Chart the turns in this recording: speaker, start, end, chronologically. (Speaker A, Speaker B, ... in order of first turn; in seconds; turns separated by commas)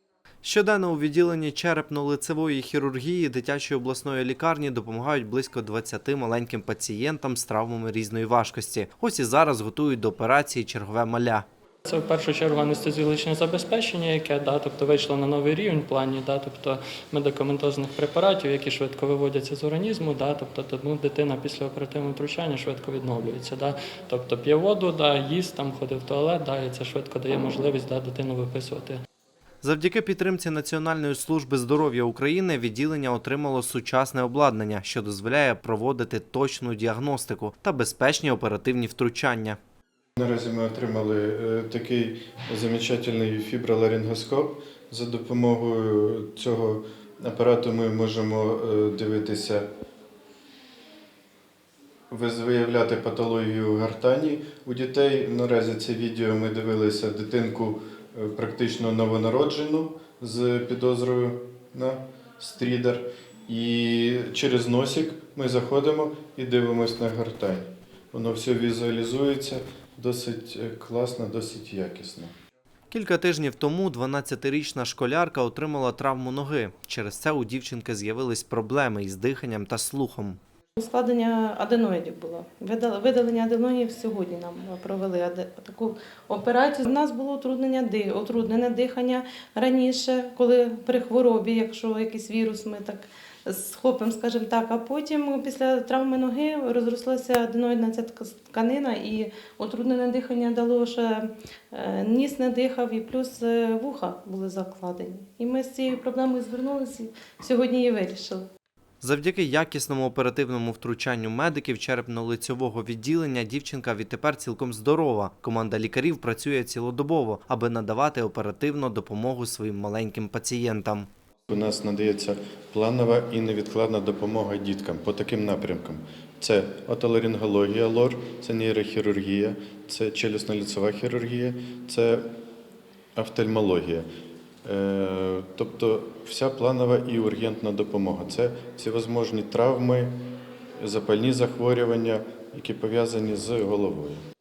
Speaker A: 0.4-11.5, Speaker B: 11.8-29.0, Speaker A: 29.6-39.6, Speaker C: 40.2-49.7, Speaker C: 52.1-72.3, Speaker A: 72.9-80.4, Speaker D: 80.8-108.5, Speaker A: 109.0-121.1, Speaker C: 121.5-132.3, Speaker C: 133.2-134.1, Speaker C: 134.6-140.2, Speaker C: 140.8-144.2